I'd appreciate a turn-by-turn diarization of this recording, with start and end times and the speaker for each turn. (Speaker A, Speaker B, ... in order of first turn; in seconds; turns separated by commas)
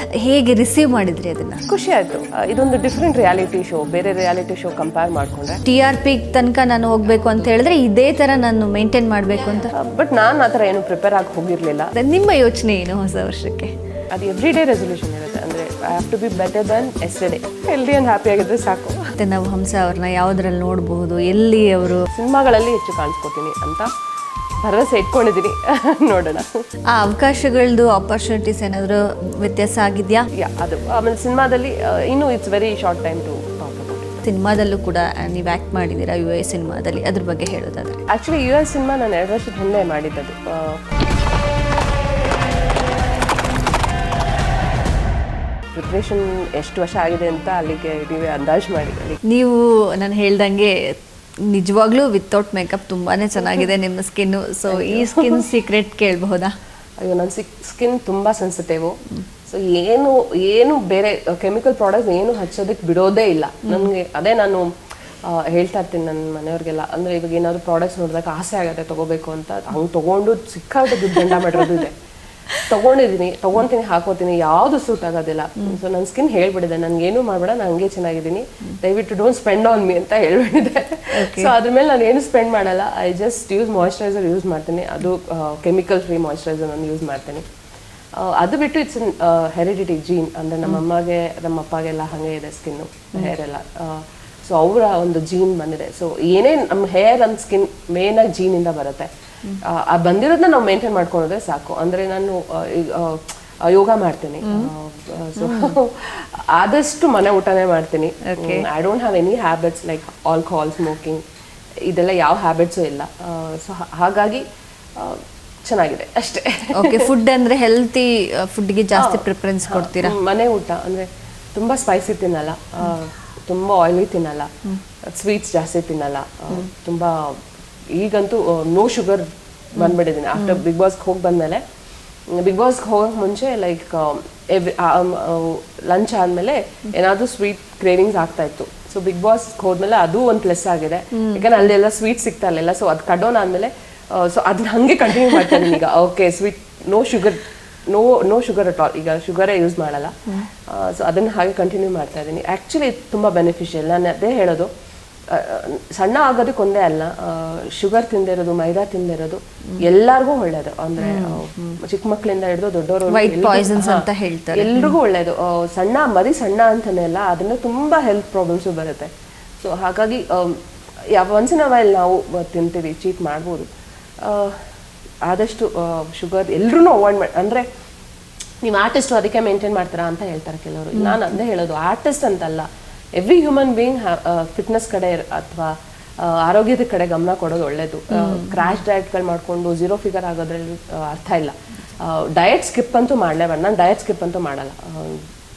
Speaker A: 0.2-1.6, Speaker B: 1.7-5.6, Speaker A: 5.6-9.7, Speaker B: 9.7-11.9, Speaker A: 11.9-13.7, Speaker B: 14.1-19.0, Speaker A: 19.2-22.1, Speaker B: 22.1-23.9, Speaker B: 24.6-26.5, Speaker A: 26.9-30.3, Speaker B: 30.4-34.2, Speaker A: 34.2-38.0, Speaker B: 38.1-40.8, Speaker B: 45.7-49.2, Speaker A: 49.2-50.9, Speaker A: 51.5-56.5, Speaker B: 54.7-55.5, Speaker B: 57.0-59.0, Speaker B: 59.5-64.7, Speaker B: 65.2-72.0, Speaker A: 71.0-71.8, Speaker B: 72.7-87.4, Speaker A: 81.1-81.5, Speaker B: 88.2-99.1, Speaker B: 99.6-111.2, Speaker A: 104.4-104.7, Speaker A: 105.4-105.7, Speaker A: 108.2-108.7, Speaker B: 111.9-114.4, Speaker B: 115.0-117.1, Speaker A: 116.7-120.2, Speaker B: 118.9-124.5, Speaker B: 125.1-127.4, Speaker B: 127.9-131.6, Speaker A: 129.8-130.6, Speaker B: 132.3-150.1, Speaker A: 141.1-141.5, Speaker B: 150.7-154.7, Speaker B: 155.3-169.1, Speaker A: 161.0-161.8, Speaker A: 163.1-164.9, Speaker B: 169.6-170.6, Speaker B: 171.1-173.7, Speaker B: 174.2-174.6, Speaker B: 175.2-177.7, Speaker B: 178.6-182.7, Speaker A: 180.9-181.2, Speaker B: 183.2-195.2, Speaker A: 188.1-188.8